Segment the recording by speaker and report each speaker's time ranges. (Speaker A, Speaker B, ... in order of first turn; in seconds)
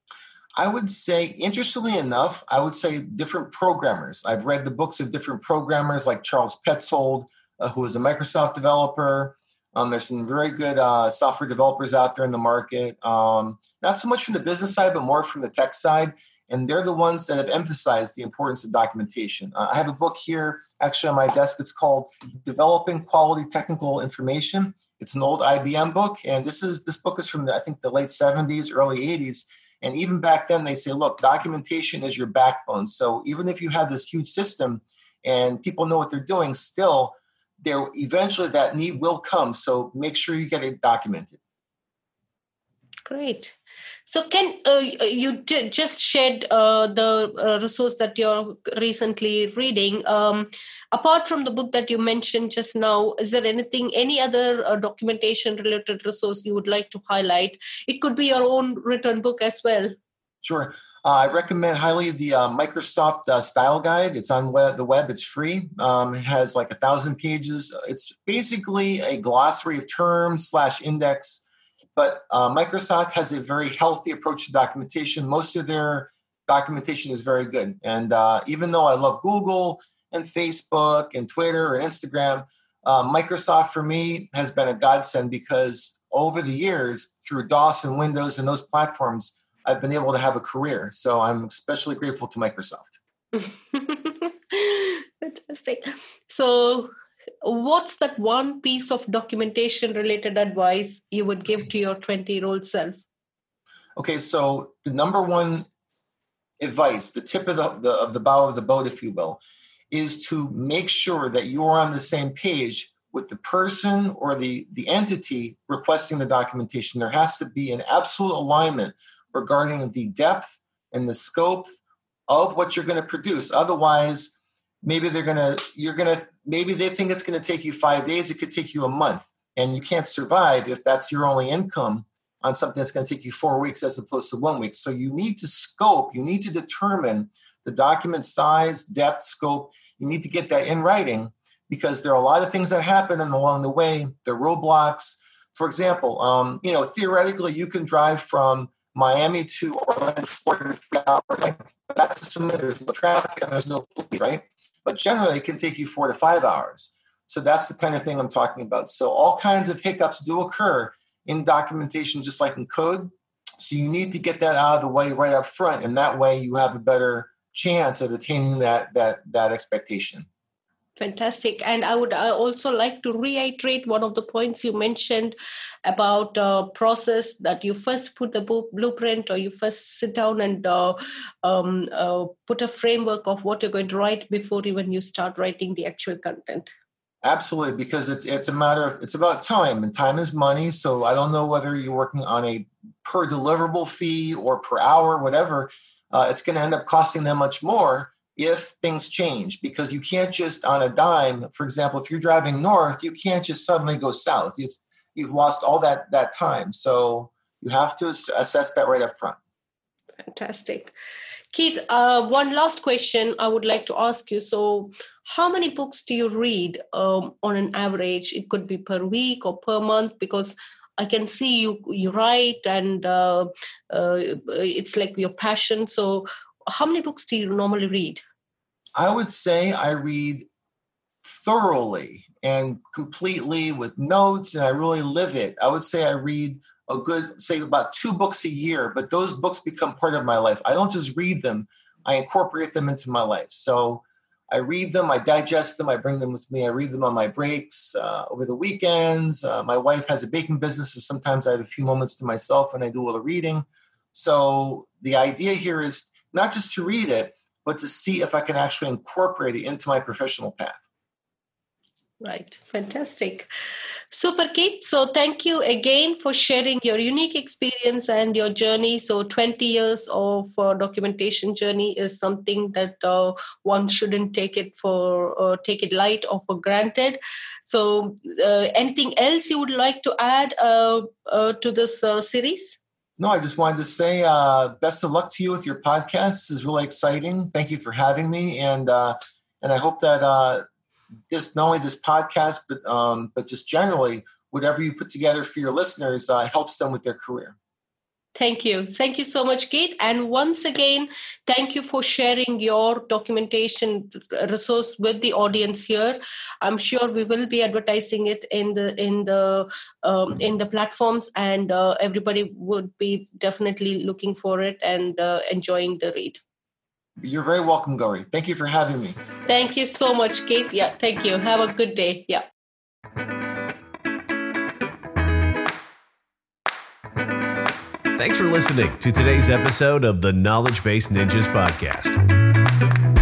Speaker A: 0.6-41.4, 60.4-71.4, 72.0-93.0, 104.0-105.7, 106.6-170.3, 187.2-209.4, 228.9-230.5, 231.2-260.8, 283.2-290.7, 291.3-297.6, 317.2-319.2
Speaker B: 43.1-43.6, 44.1-59.9, 93.3-96.9, 97.4-103.1, 171.0-186.7, 210.2-210.9, 211.5-228.2, 262.2-263.5, 264.1-282.8, 298.4-316.4, 319.5-322.4
Speaker C: 328.2-332.2